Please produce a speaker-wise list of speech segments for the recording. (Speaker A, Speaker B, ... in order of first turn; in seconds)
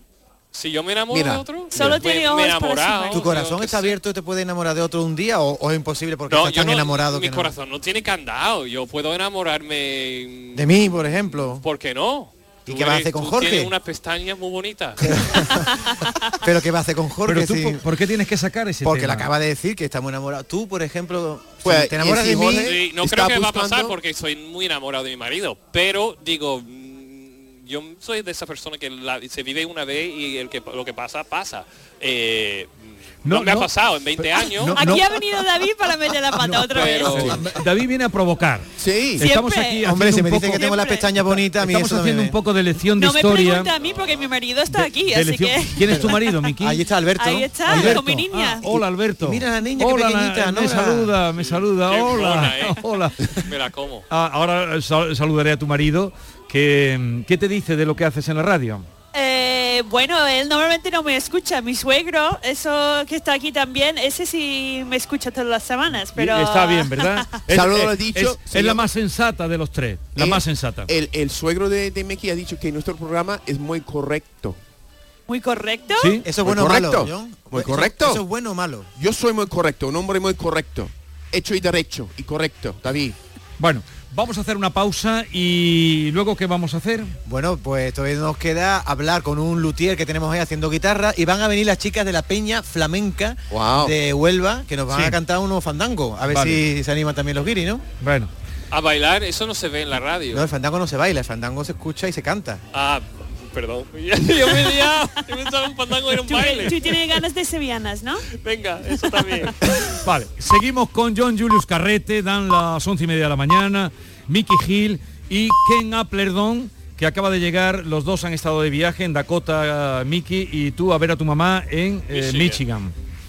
Speaker A: 0.5-4.0, 6.3-15.2, 22.6-35.0, 36.7-37.5, 43.8-44.3, 51.4-54.1, 98.7-100.5, 102.7-107.2, 108.4-109.5, 122.1-122.6
Speaker B: 1.1-1.9, 21.6-23.9, 38.8-39.2, 67.5-68.9, 70.2-74.6, 76.4-78.2, 79.0-83.2, 93.5-93.9
Speaker C: 1.7-3.3, 34.4-37.5, 39.2-39.9, 40.5-41.1, 43.0-46.5, 47.2-48.7, 59.1-67.2, 75.3-76.2, 106.3-108.2
Speaker D: 3.1-7.5, 10.5-11.6, 12.7-13.7, 15.0-15.7, 16.4-17.9, 18.8-22.8, 39.8-42.4, 45.8-48.0, 49.2-51.1, 76.2-78.9, 87.3-97.8, 100.3-102.6
Speaker E: 17.3-19.3, 33.2-35.2, 36.4-38.7, 39.2-40.6, 41.2-43.7, 44.7-46.8, 47.7-53.4, 54.1-58.9, 66.1-70.9, 76.0-76.3, 83.6-87.1, 94.9-95.2, 96.3-96.6, 98.0-98.3, 109.9-122.9